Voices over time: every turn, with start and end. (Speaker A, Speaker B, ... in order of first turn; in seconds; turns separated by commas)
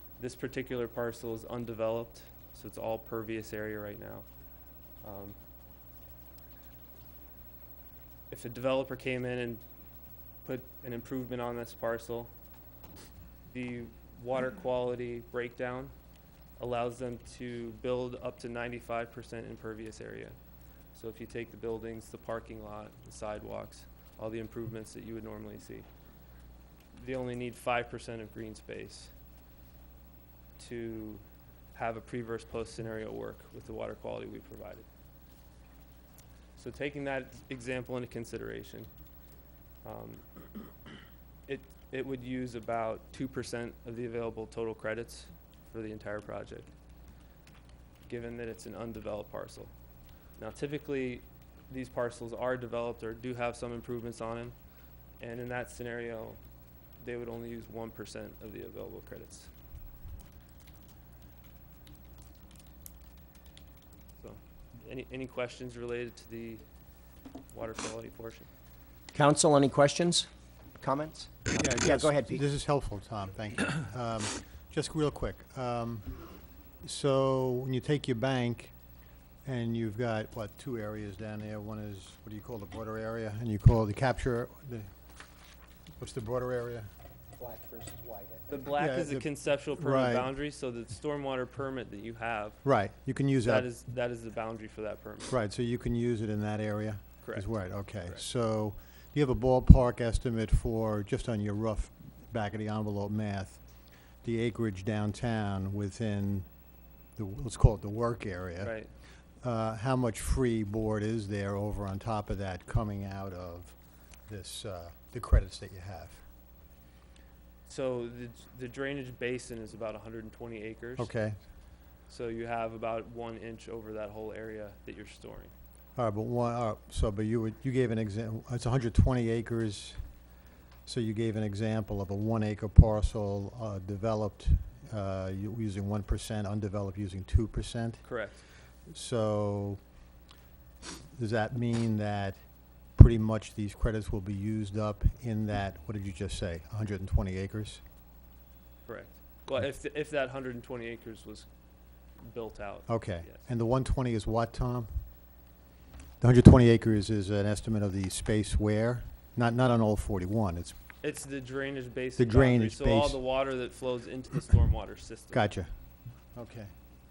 Speaker A: 0.2-4.2, Speaker A: 5.0-5.4, Speaker A: 8.3-9.6, Speaker A: 10.4-12.3, Speaker A: 13.5-15.9, Speaker A: 16.6-20.4, Speaker A: 20.9-25.9, Speaker A: 26.9-29.1, Speaker A: 30.6-34.9, Speaker A: 36.6-38.9, Speaker A: 39.8-40.4, Speaker A: 41.5-46.7, Speaker A: 48.0-49.7, Speaker A: 50.4-54.5, Speaker A: 55.2-56.4, Speaker A: 57.0-59.5, Speaker A: 64.2-66.6, Speaker A: 67.5-68.5, Speaker B: 69.1-70.3, Speaker B: 70.8-72.4, Speaker C: 71.6-76.2, Speaker C: 76.8-78.7, Speaker C: 79.4-84.9, Speaker C: 86.0-86.9, Speaker B: 87.4-88.7, Speaker A: 88.5-92.6, Speaker C: 88.8-90.3, Speaker C: 92.6-93.7, Speaker A: 93.4-95.3, Speaker C: 95.3-103.6, Speaker C: 104.2-106.5, Speaker C: 107.2-108.7, Speaker A: 108.6-108.9, Speaker C: 109.4-113.8, Speaker C: 114.3-116.2, Speaker A: 117.7-121.1, Speaker C: 121.0-121.4, Speaker A: 122.1-125.5, Speaker C: 126.0-130.0, Speaker C: 130.9-138.1, Speaker A: 138.0-138.4, Speaker C: 138.9-139.8, Speaker C: 141.1-142.4, Speaker C: 143.0-147.8, Speaker A: 148.9-151.5, Speaker A: 152.3-153.4, Speaker C: 152.9-154.9, Speaker C: 156.2-160.8, Speaker A: 161.0-165.5, Speaker C: 162.2-163.2, Speaker C: 165.3-165.7, Speaker C: 166.3-166.7